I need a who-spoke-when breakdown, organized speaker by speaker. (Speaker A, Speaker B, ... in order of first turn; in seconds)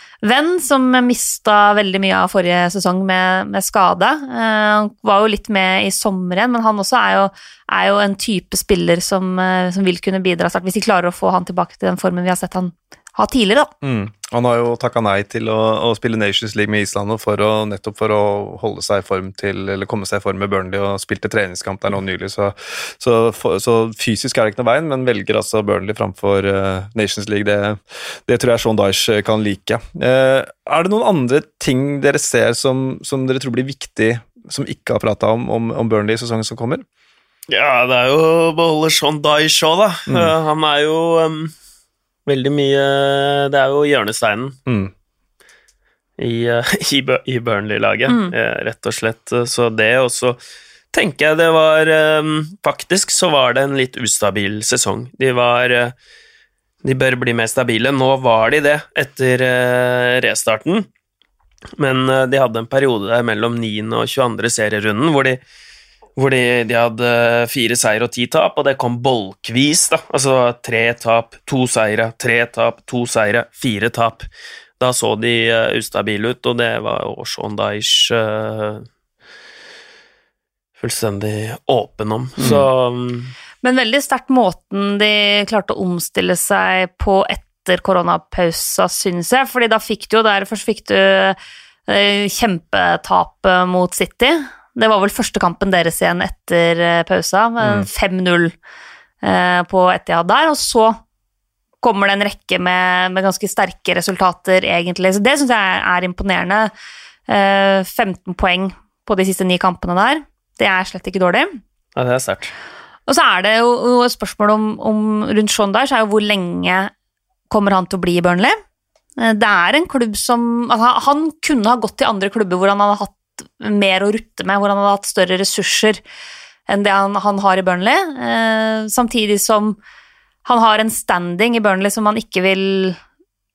Speaker A: 0.2-13.7, 48.1-48.3, 83.6-98.5, 99.2-101.0, 101.8-106.7, 107.3-111.5, 113.1-116.9, 117.5-118.6, 119.2-126.0, 126.7-129.8, 130.5-133.0
Speaker B: 13.8-36.9, 40.1-40.3, 44.7-44.9, 82.4-82.7, 97.6-97.9
Speaker C: 37.5-41.5, 42.3-44.6, 46.2-50.4, 50.9-56.0, 56.8-60.9, 61.8-65.4, 66.2-74.3, 74.8-78.9, 80.8-83.3, 112.0-112.5